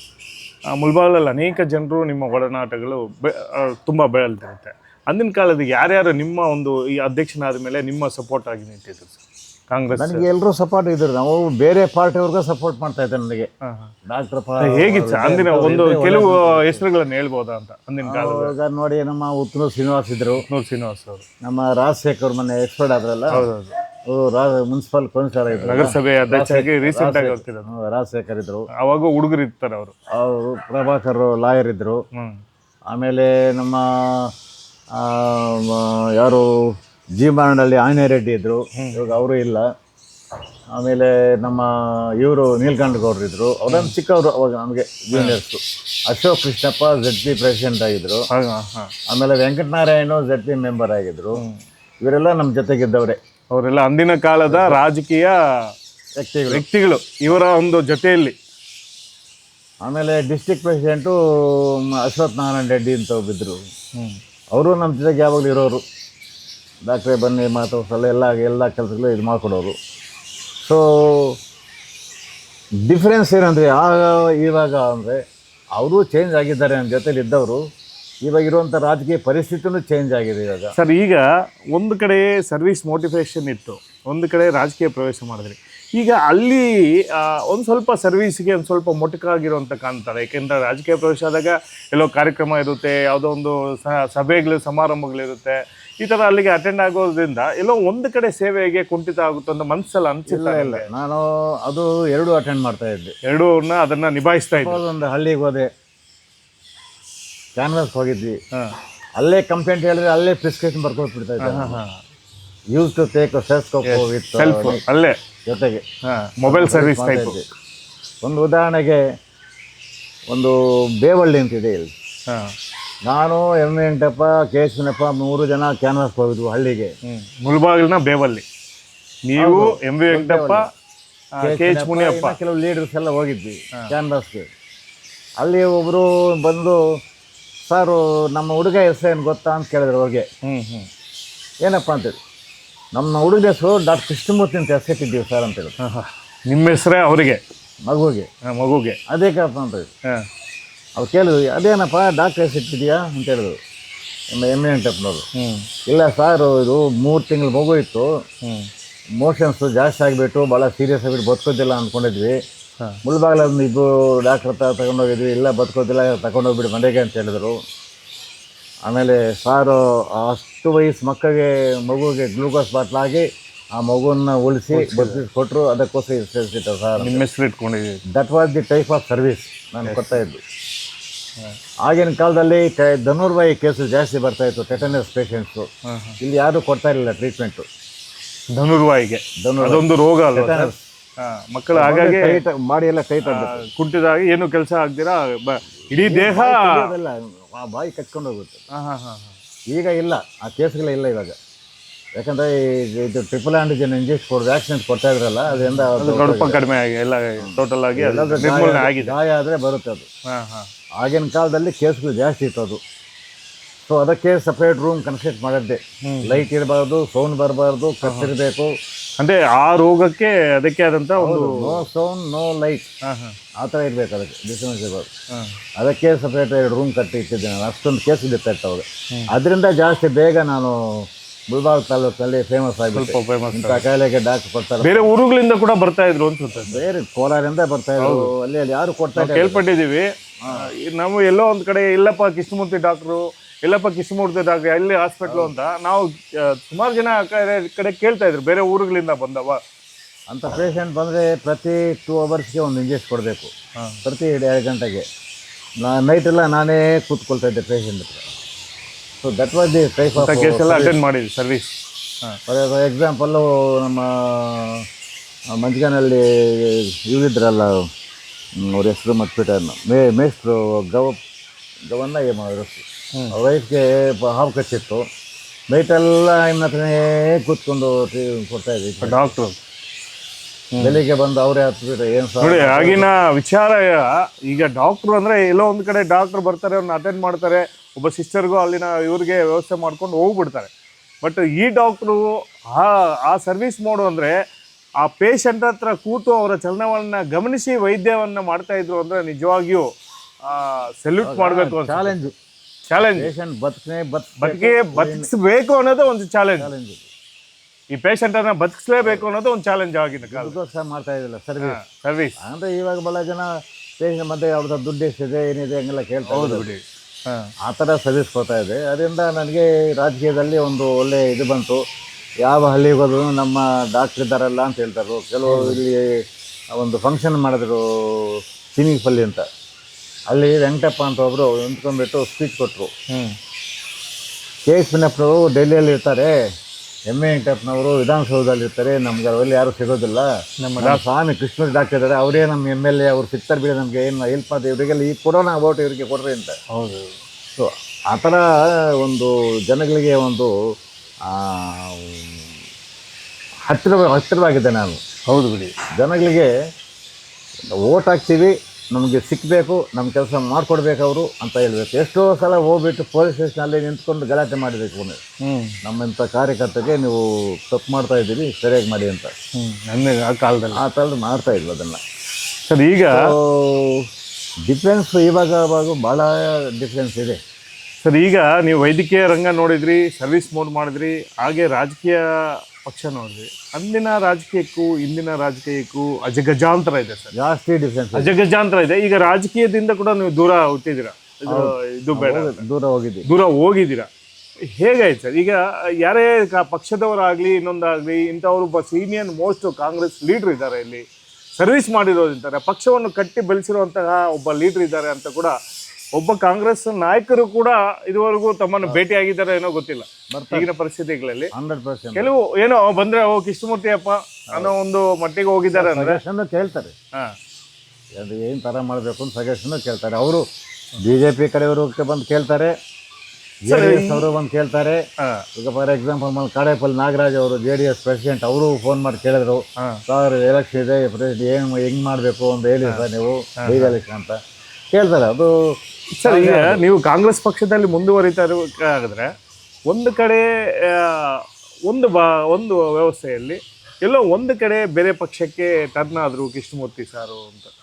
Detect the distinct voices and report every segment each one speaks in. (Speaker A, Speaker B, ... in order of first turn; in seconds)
Speaker A: 0.7-10.3, 13.6-13.9, 14.6-18.5, 20.4-21.2, 23.3-23.8, 25.5-27.7, 28.7-29.9, 32.1-32.4, 38.8-39.0, 43.7-43.9, 45.1-45.4, 48.3-48.9, 53.5-55.4, 56.5-58.4, 80.8-100.9, 103.2-104.8, 111.4-112.0, 113.8-115.2, 116.0-117.4, 127.0-128.4, 129.3-130.7, 131.4-132.3, 140.4-140.9, 145.8-147.4, 148.4-149.0, 155.3-155.7, 158.4-158.7, 174.7-175.2, 177.0-178.0, 179.8-180.2, 185.8-186.2, 188.5-192.4, 193.2-196.9, 198.7-199.4, 205.5-209.1, 210.3-210.7, 216.0-216.4, 218.0-218.3, 219.2-221.8, 223.0-223.4, 232.9-233.8, 234.8-236.9, 238.0-238.3, 239.2-249.6, 260.1-262.4, 279.0-279.6, 280.7-281.0, 282.4-290.7, 291.2-294.4, 295.0-299.9, 300.4-302.2, 302.9-303.3, 304.4-306.7, 307.9-310.6, 311.6-312.4, 316.3-317.5, 325.4-325.8, 340.6-341.0, 346.7-347.1, 355.3-355.7, 365.4-365.8, 369.5-370.8, 372.6-373.3, 378.0-387.3, 388.1-392.6, 393.2-394.1, 394.7-401.0, 401.6-405.5, 406.1-411.5, 412.1-416.2, 423.6-424.3, 433.6-433.9, 436.2-439.3, 439.9-447.7
Speaker B: 9.9-13.5, 14.1-16.8, 18.0-20.4, 21.4-23.5, 24.1-28.7, 30.1-32.0, 32.9-34.3, 34.9-36.5, 37.2-39.6, 40.7-48.2, 49.1-51.4, 52.0-53.2, 54.5-54.8, 56.2-56.6, 59.8-63.6, 64.5-65.8, 66.9-69.8, 70.6-71.4, 72.8-75.2, 75.8-77.6, 78.2-80.7, 100.3-103.1, 104.6-105.7, 107.5-108.4, 109.2-111.8, 112.7-114.8, 115.5-115.8, 116.5-117.5, 118.2-119.0, 120.3-121.9, 123.0-126.9, 129.4-130.7, 131.4-134.5, 135.4-136.8, 137.7-140.3, 141.6-142.2, 142.9-145.7, 147.8-148.3, 149.1-149.9, 151.0-153.6, 154.3-155.2, 155.9-158.1, 159.2-162.4, 163.0-167.6, 168.8-177.2, 178.1-180.4, 181.8-185.7, 186.2-187.7, 189.4-190.8, 191.7-193.6, 195.9-198.6, 199.7-201.4, 202.2-206.6, 207.4-210.1, 211.0-212.8, 213.8-218.7, 221.2-222.8, 223.6-225.1, 225.8-235.1, 236.6-239.6, 240.4-240.7, 245.2-245.5, 250.3-253.5, 254.0-255.0, 255.8-258.2, 259.2-261.0, 262.5-264.9, 265.5-267.8, 268.6-271.2, 271.9-275.0, 275.7-279.3, 280.8-283.1, 301.2-302.3, 303.1-305.3, 306.6-307.0, 310.3-311.8, 312.4-316.7, 317.6-321.8, 322.4-326.1, 326.7-329.4, 330.3-332.9, 334.7-336.3, 337.1-340.3, 340.8-346.6, 347.6-350.5, 351.3-352.3, 353.7-355.0, 355.9-356.5, 357.7-365.2, 365.8-369.3, 370.7-372.0, 373.1-374.1, 374.6-377.4, 387.3-388.4, 391.5-393.3, 410.3-410.7, 411.5-412.3, 415.7-416.9, 418.2-420.4, 421.0-422.7, 423.6-425.0, 425.6-434.4, 434.9-436.8